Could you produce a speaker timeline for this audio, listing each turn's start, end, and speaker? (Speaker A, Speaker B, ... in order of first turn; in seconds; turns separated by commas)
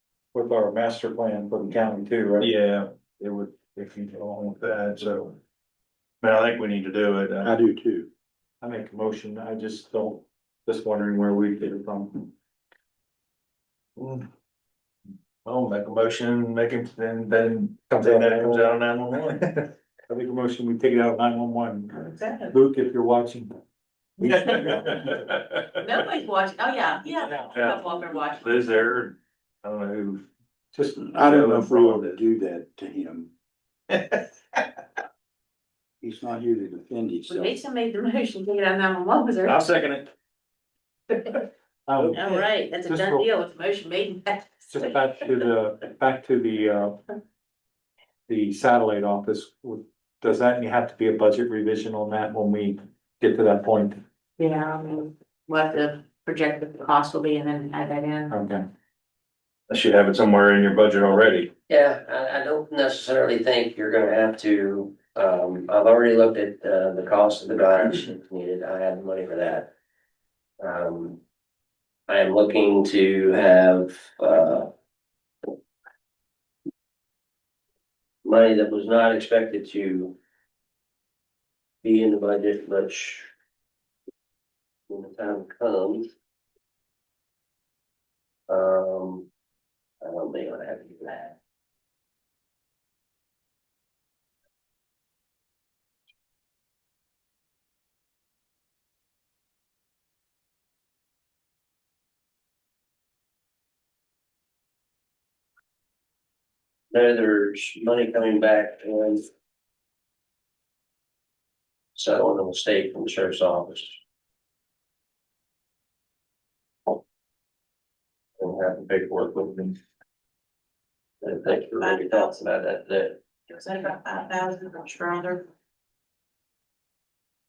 Speaker A: 0.3-2.5, Speaker B: 2.4-5.4, Speaker B: 6.2-7.5, Speaker C: 7.4-8.1, Speaker A: 8.6-12.3, Speaker B: 14.0-14.3, Speaker B: 15.4-19.4, Speaker A: 17.9-18.6, Speaker A: 19.5-23.5, Speaker D: 22.2-22.5, Speaker D: 24.2-24.8, Speaker A: 24.2-25.2, Speaker B: 24.2-25.6, Speaker D: 25.8-28.8, Speaker B: 27.5-30.3, Speaker A: 30.7-31.0, Speaker C: 31.0-33.3, Speaker B: 31.2-32.2, Speaker B: 34.1-34.6, Speaker C: 36.0-37.5, Speaker D: 37.3-39.6, Speaker B: 39.4-40.1, Speaker D: 41.1-41.4, Speaker A: 41.9-43.3, Speaker D: 42.1-44.9, Speaker A: 44.7-47.0, Speaker A: 48.3-54.0, Speaker D: 54.4-58.4, Speaker A: 58.3-58.6, Speaker B: 59.7-61.5, Speaker E: 61.7-69.7, Speaker E: 70.6-71.2, Speaker E: 72.1-74.7, Speaker E: 78.2-80.2, Speaker E: 81.8-83.3, Speaker E: 84.9-86.1, Speaker E: 88.5-89.3, Speaker E: 90.0-91.4, Speaker E: 106.9-109.3, Speaker E: 112.0-114.0, Speaker E: 118.4-119.8, Speaker E: 121.2-123.2, Speaker D: 121.8-122.4, Speaker D: 123.5-125.5